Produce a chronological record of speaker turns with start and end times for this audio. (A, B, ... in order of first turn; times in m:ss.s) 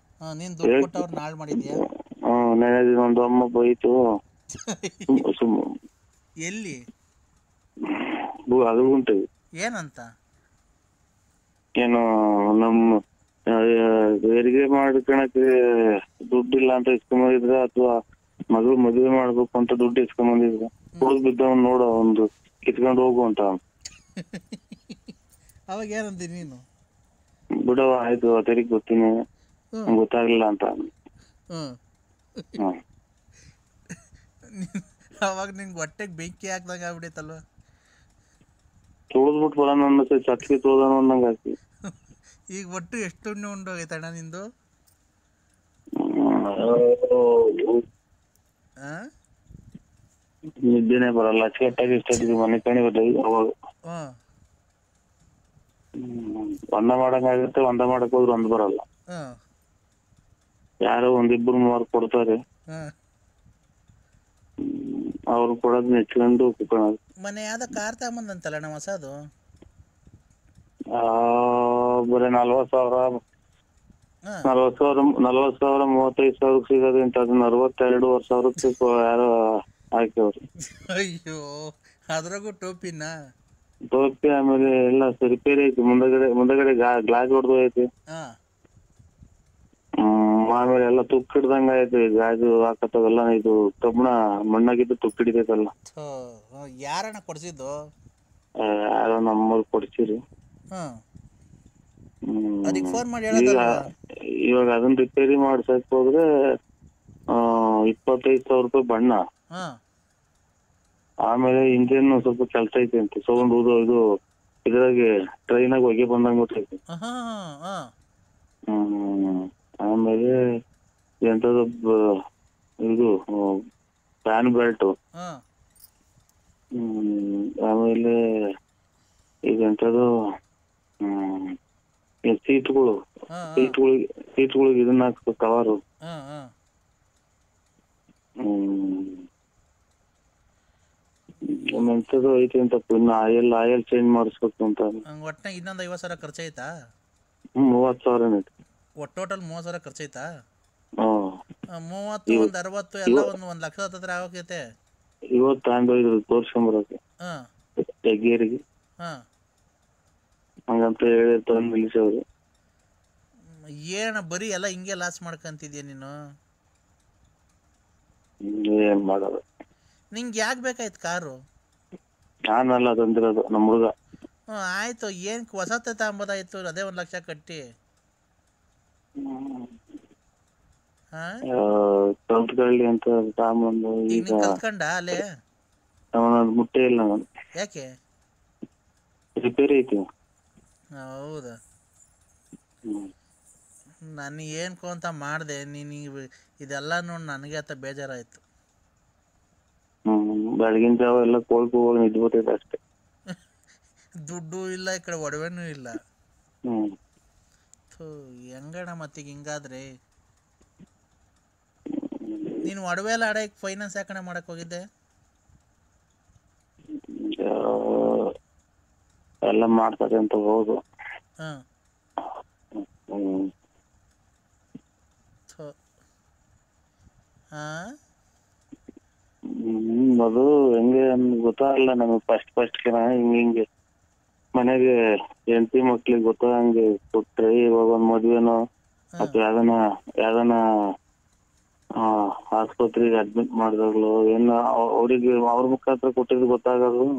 0:00.2-0:01.8 A
0:00.6-0:01.0 B
0:01.6-0:04.0 B
0:04.6-0:05.2 A
0:05.1-0:05.7 B
0:06.4-0:06.8 A
0:07.8-0:09.2 B
0:09.6-0:10.0 A
0:11.8-0:12.9 B
0:13.5-0:15.5 B
0:16.2-0:17.9 B
0:18.5-0:23.6 B
0:24.2-0:25.0 A
0:25.7-0:26.6 A
0:27.6-0:29.1 B
0:29.9-0:30.8 B
0:34.5-0:37.4 A
0:39.1-0:41.5 B
0:42.5-0:44.4 A
0:46.0-0:47.8 B
0:50.6-0:53.5 B
0:56.0-0:58.8 B
1:00.8-1:02.4 B
1:04.6-1:07.0 B
1:07.2-1:09.1 A
1:10.9-1:13.1 B
1:14.4-1:19.3 B
1:20.0-1:20.4 B
1:20.6-1:21.5 A
1:22.1-1:23.1 A
1:23.9-1:27.8 B
1:30.0-1:35.7 B
1:35.9-1:37.7 A
1:38.6-1:40.2 B
1:42.3-1:43.6 B
1:42.7-1:43.7 A
1:44.4-1:46.2 B
1:47.3-1:49.2 B
1:51.3-1:54.0 B
1:54.6-1:56.8 B
1:56.9-1:57.8 A
1:58.7-2:00.3 B
2:01.2-2:02.1 B
2:02.8-2:03.6 B
2:04.2-2:04.9 B
2:06.8-2:08.1 B
2:09.5-2:10.1 B
2:11.0-2:11.6 B
2:12.3-2:12.9 B
2:13.3-2:13.7 A
2:13.6-2:15.8 B
2:16.0-2:16.5 A
2:18.4-2:19.2 B
2:21.5-2:25.0 B
2:25.1-2:26.7 A
2:27.6-2:28.5 B
2:29.0-2:30.2 A
2:31.0-2:31.3 B
2:31.7-2:34.6 A
2:33.1-2:33.3 B
2:35.4-2:37.0 B
2:38.0-2:38.6 B
2:40.7-2:42.2 B
2:43.9-2:46.1 A
2:48.4-2:49.4 B
2:50.1-2:51.3 A
2:52.5-2:53.9 B
2:54.5-2:57.6 A
2:59.2-2:59.7 B
3:01.5-3:04.6 B
3:04.1-3:05.3 A
3:06.2-3:07.2 B
3:07.6-3:07.8 A
3:09.4-3:10.0 B
3:11.0-3:11.5 A
3:14.2-3:16.0 A
3:16.6-3:18.4 A
3:20.1-3:22.8 B
3:24.3-3:25.9 A
3:27.9-3:29.8 A
3:31.9-3:32.6 B
3:32.6-3:34.8 A
3:37.0-3:38.3 B
3:39.5-3:40.8 B
3:43.1-3:43.5 B
3:47.5-3:47.9 A
3:49.6-3:53.6 B
3:54.6-3:54.9 B
3:55.5-3:58.6 B
3:59.2-4:00.6 B
4:02.0-4:07.1 B